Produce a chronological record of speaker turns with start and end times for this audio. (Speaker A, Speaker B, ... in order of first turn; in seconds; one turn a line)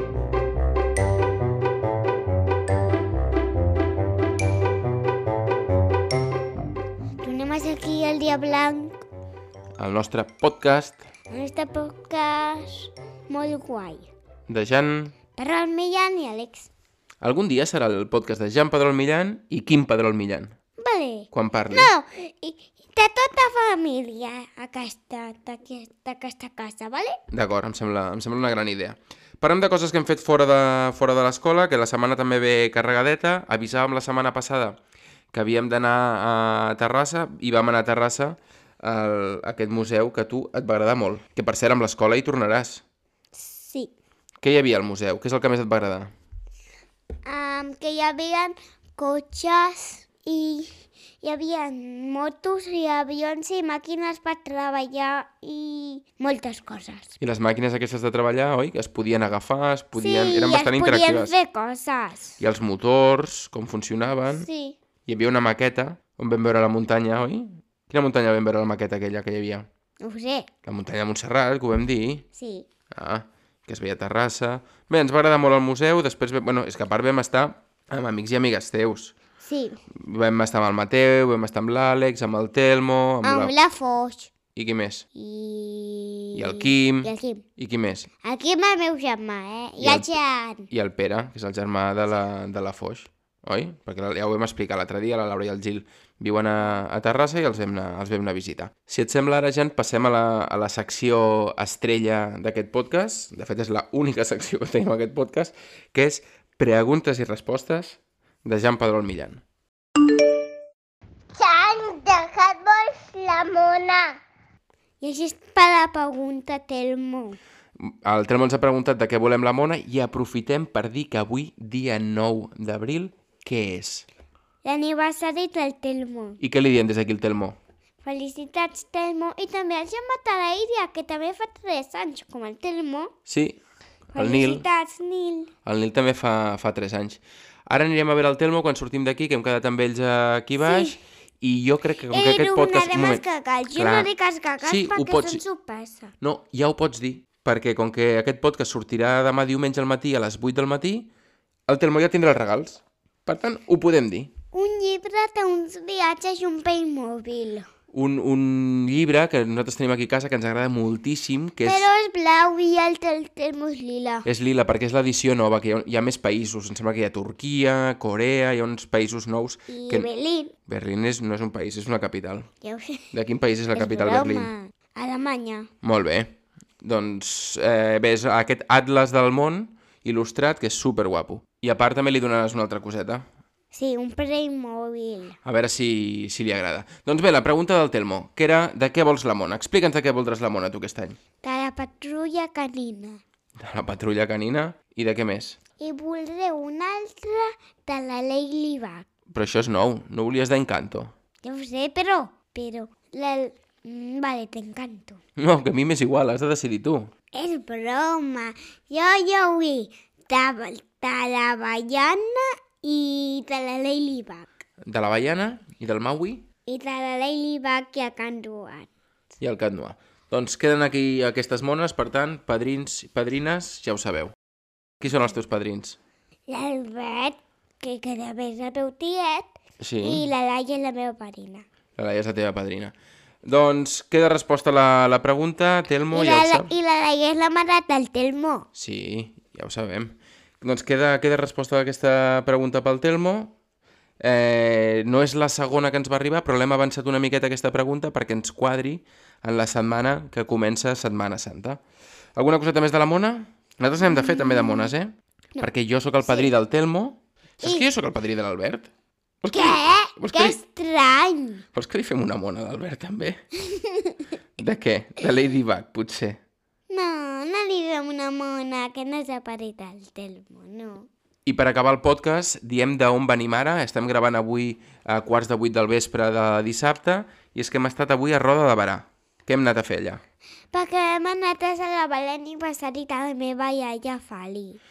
Speaker A: 7.2-9.0
Speaker B: 9.8-11.1
Speaker A: 11.3-14.1
Speaker B: 14.5-15.1
Speaker A: 15.4-16.7
Speaker B: 17.2-20.5
Speaker A: 20.8-27.2
Speaker B: 21.3-21.9
Speaker B: 27.3-34.8
Speaker B: 35.3-42.8
Speaker A: 43.3-43.9
Speaker B: 44.4-46.1
Speaker A: 47.2-57.1
Speaker B: 57.2-61.3
Speaker A: 59.9-62.4
Speaker B: 62.4-64.5
Speaker A: 64.3-64.8
Speaker B: 65.0-69.7
Speaker A: 70.0-70.5
Speaker B: 70.7-72.2
Speaker A: 72.3-72.7
Speaker B: 72.9-79.1
Speaker A: 79.4-79.8
Speaker B: 79.9-83.5
Speaker A: 83.2-84.3
Speaker B: 84.5-85.0
Speaker A: 85.1-87.4
Speaker B: 86.3-88.1
Speaker A: 88.2-90.7
Speaker B: 89.8-90.1
Speaker B: 90.7-109.4
Speaker A: 111.3-114.2
Speaker A: 115.0-117.4
Speaker B: 117.8-124.1
Speaker A: 124.6-126.4
Speaker B: 126.4-127.6
Speaker A: 128.0-133.1
Speaker B: 133.3-133.6
Speaker A: 134.1-135.5
Speaker B: 134.2-134.6
Speaker B: 135.6-143.2
Speaker A: 140.6-141.0
Speaker A: 142.1-146.1
Speaker B: 143.8-144.1
Speaker B: 144.6-145.4
Speaker B: 146.2-151.1
Speaker B: 151.7-154.3
Speaker A: 154.5-157.7
Speaker B: 157.9-161.9
Speaker A: 161.6-164.3
Speaker B: 164.2-170.1
Speaker A: 169.7-170.5
Speaker B: 170.7-172.5
Speaker A: 172.6-173.1
Speaker B: 173.1-174.5
Speaker A: 173.7-175.7
Speaker B: 175.8-183.2
Speaker A: 183.7-185.4
Speaker B: 185.4-191.2
Speaker A: 191.4-193.2
Speaker B: 193.6-195.6
Speaker A: 195.8-199.1
Speaker B: 199.3-201.1
Speaker A: 201.4-205.2
Speaker B: 205.4-207.1
Speaker A: 207.3-214.4
Speaker B: 214.8-216.4
Speaker A: 216.7-218.9
Speaker B: 219.4-224.3
Speaker B: 225.0-226.0
Speaker A: 226.5-231.6
Speaker B: 229.8-230.2
Speaker B: 231.9-236.7
Speaker A: 236.1-238.7
Speaker B: 238.7-243.5
Speaker B: 244.2-251.8
Speaker B: 252.3-258.9
Speaker A: 254.0-254.9
Speaker A: 256.2-256.5
Speaker B: 259.4-260.6
Speaker A: 259.5-261.6
Speaker B: 261.7-263.4
Speaker A: 263.6-264.3
Speaker B: 264.6-266.4
Speaker A: 266.9-271.1
Speaker B: 271.4-280.2
Speaker A: 280.7-284.8